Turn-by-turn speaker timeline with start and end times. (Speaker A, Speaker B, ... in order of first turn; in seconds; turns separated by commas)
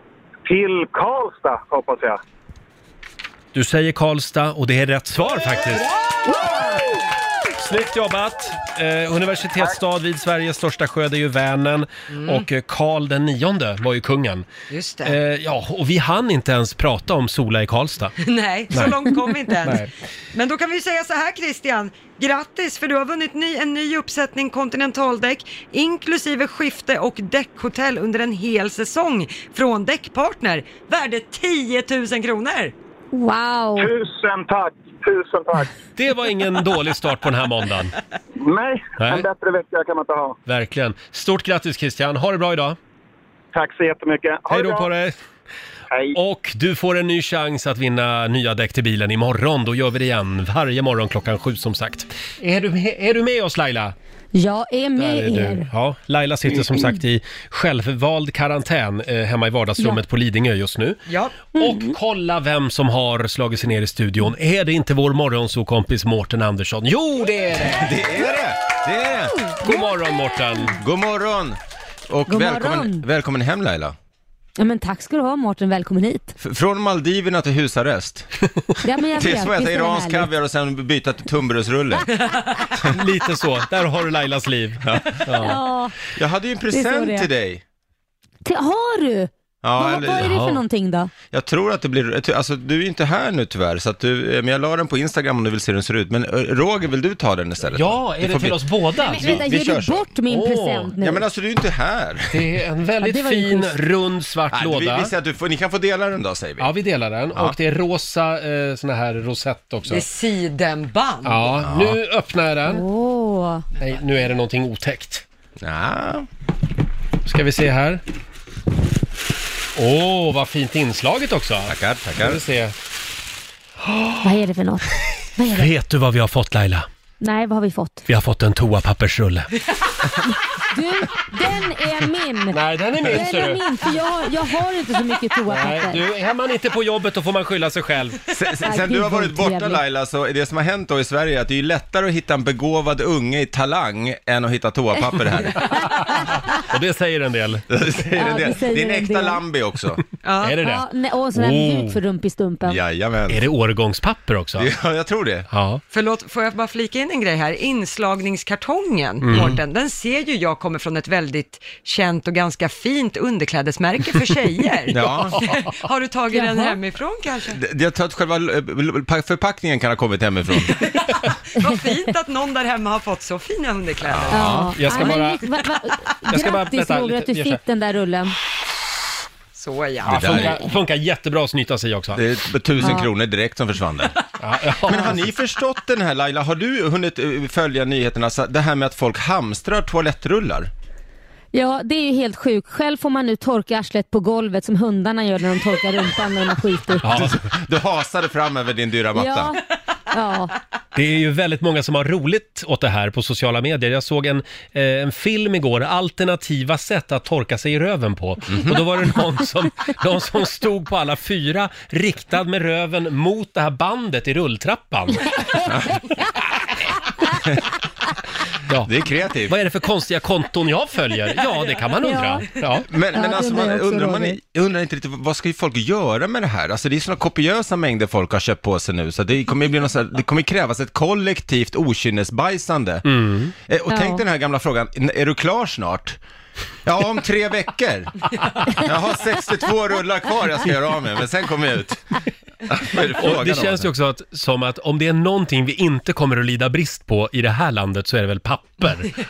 Speaker A: 0.5-2.2, Speaker B: 3.5-5.9, Speaker A: 6.3-6.8, Speaker B: 7.6-14.5, Speaker C: 12.1-12.4, Speaker C: 14.7-15.2, Speaker B: 15.0-18.1, Speaker C: 18.2-32.7, Speaker B: 19.6-19.9, Speaker D: 33.1-33.9, Speaker A: 33.8-35.7, Speaker B: 36.0-38.0, Speaker A: 38.4-40.4, Speaker B: 39.0-39.3, Speaker B: 40.5-42.8, Speaker A: 43.5-44.9, Speaker B: 44.5-45.2, Speaker A: 45.9-46.2, Speaker B: 46.1-54.0, Speaker D: 54.3-55.7, Speaker B: 55.0-61.0, Speaker C: 61.1-61.4, Speaker B: 61.5-68.0, Speaker D: 61.6-62.0, Speaker E: 67.6-69.4, Speaker D: 69.5-70.7, Speaker B: 69.6-70.8, Speaker E: 70.8-71.6, Speaker E: 72.1-74.0, Speaker D: 72.3-73.0, Speaker D: 74.6-76.4, Speaker E: 76.4-78.3, Speaker D: 78.8-80.3, Speaker E: 79.1-82.1, Speaker C: 82.3-82.5, Speaker B: 82.9-85.6, Speaker E: 84.8-85.2, Speaker D: 85.4-86.0, Speaker E: 86.1-87.6, Speaker D: 86.7-87.3, Speaker D: 88.5-91.1, Speaker E: 89.6-90.4, Speaker B: 90.2-90.6, Speaker E: 91.3-100.1, Speaker B: 97.7-99.4, Speaker D: 99.1-101.2, Speaker B: 100.3-100.9, Speaker E: 101.0-102.4, Speaker B: 102.3-105.1, Speaker D: 103.0-103.8, Speaker E: 104.5-106.7, Speaker B: 106.6-110.0, Speaker C: 109.9-111.5, Speaker B: 111.2-112.8, Speaker E: 111.6-112.0, Speaker D: 112.7-113.7, Speaker B: 113.8-115.2, Speaker E: 115.6-116.3, Speaker B: 117.2-118.0, Speaker B: 119.8-122.8, Speaker E: 121.7-122.4, Speaker B: 123.8-124.3, Speaker D: 124.2-125.7, Speaker B: 125.5-126.9, Speaker D: 127.2-128.1, Speaker B: 128.1-129.6, Speaker D: 130.3-136.0, Speaker B: 132.5-133.6, Speaker B: 135.5-138.2, Speaker E: 138.3-145.8, Speaker D: 138.6-139.8, Speaker B: 146.5-147.7, Speaker E: 147.7-150.0, Speaker D: 148.2-149.4, Speaker C: 150.2-150.6, Speaker B: 150.4-152.0, Speaker D: 150.6-152.8, Speaker E: 152.7-153.4, Speaker B: 153.3-154.7, Speaker E: 154.6-155.5, Speaker B: 155.5-155.8, Speaker C: 155.9-167.6, Speaker B: 159.2-159.6, Speaker E: 164.9-165.4, Speaker D: 166.3-166.8, Speaker E: 167.5-170.8, Speaker C: 170.7-175.1, Speaker E: 174.0-174.8, Speaker D: 174.3-178.4, Speaker B: 174.8-175.4, Speaker B: 176.3-177.6, Speaker C: 179.6-180.5, Speaker E: 180.0-180.7, Speaker B: 180.1-182.2, Speaker E: 182.1-184.2, Speaker D: 182.8-183.1, Speaker B: 184.4-185.3, Speaker E: 184.8-190.7, Speaker D: 191.5-197.2, Speaker B: 197.0-197.4, Speaker E: 197.1-199.6, Speaker D: 199.2-200.6, Speaker B: 200.9-215.6, Speaker E: 208.5-208.8, Speaker E: 215.7-216.0, Speaker B: 218.7-218.9, Speaker E: 218.8-219.6, Speaker B: 219.5-222.9, Speaker D: 222.0-222.6, Speaker E: 222.9-236.2, Speaker D: 223.1-224.4, Speaker B: 233.1-233.5, Speaker D: 233.9-234.2, Speaker E: 236.8-243.9, Speaker B: 243.2-249.2